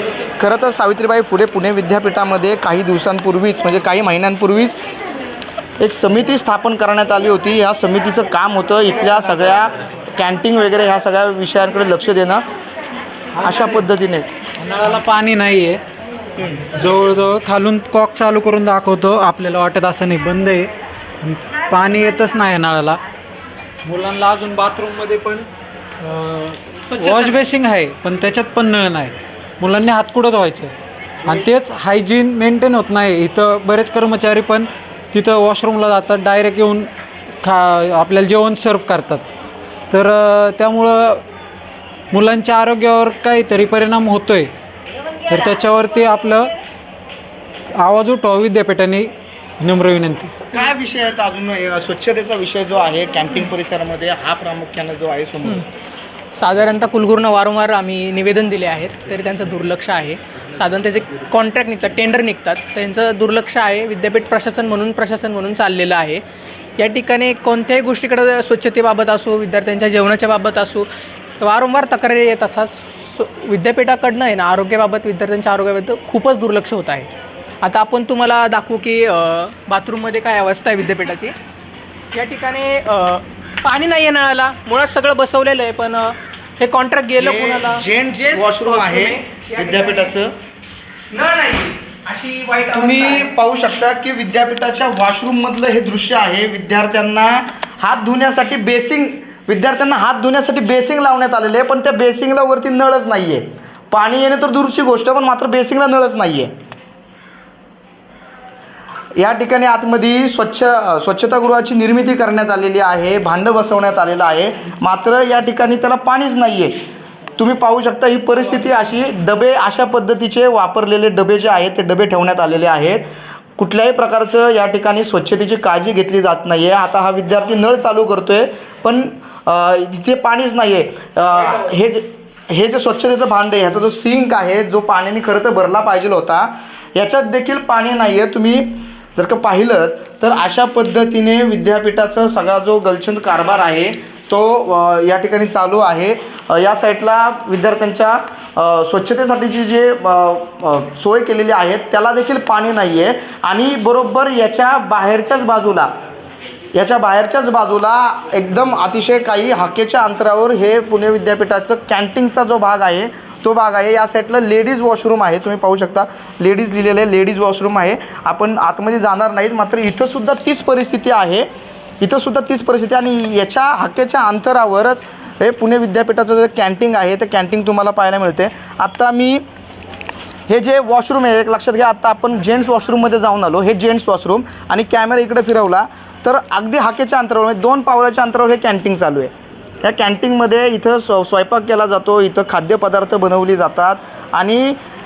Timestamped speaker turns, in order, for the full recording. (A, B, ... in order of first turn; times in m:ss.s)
0:00.4-0:04.8 A
0:05.8-0:12.4 A
0:13.4-0:13.8 B
0:13.4-0:14.3 A
0:14.6-0:15.8 B
0:16.7-0:23.0 B
0:23.8-0:25.5 B
0:26.0-0:36.9 B
0:26.9-0:27.4 C
0:37.4-0:39.3 B
0:39.9-0:41.2 B
0:42.1-0:44.5 B
0:45.3-0:46.5 B
0:47.8-0:50.3 B
0:50.5-0:55.7 A
0:56.4-1:06.2 C
1:06.8-1:10.9 C
1:11.4-1:17.1 C
1:17.6-1:21.3 C
1:22.1-1:30.1 C
1:27.2-1:30.3 A
1:31.1-1:33.3 C
1:32.7-1:46.5 A
1:49.2-1:56.8 A
1:57.4-2:35.9 A
2:36.7-2:51.5 A
2:52.0-2:59.4 A
3:00.5-3:09.3 A
3:09.8-3:14.8 A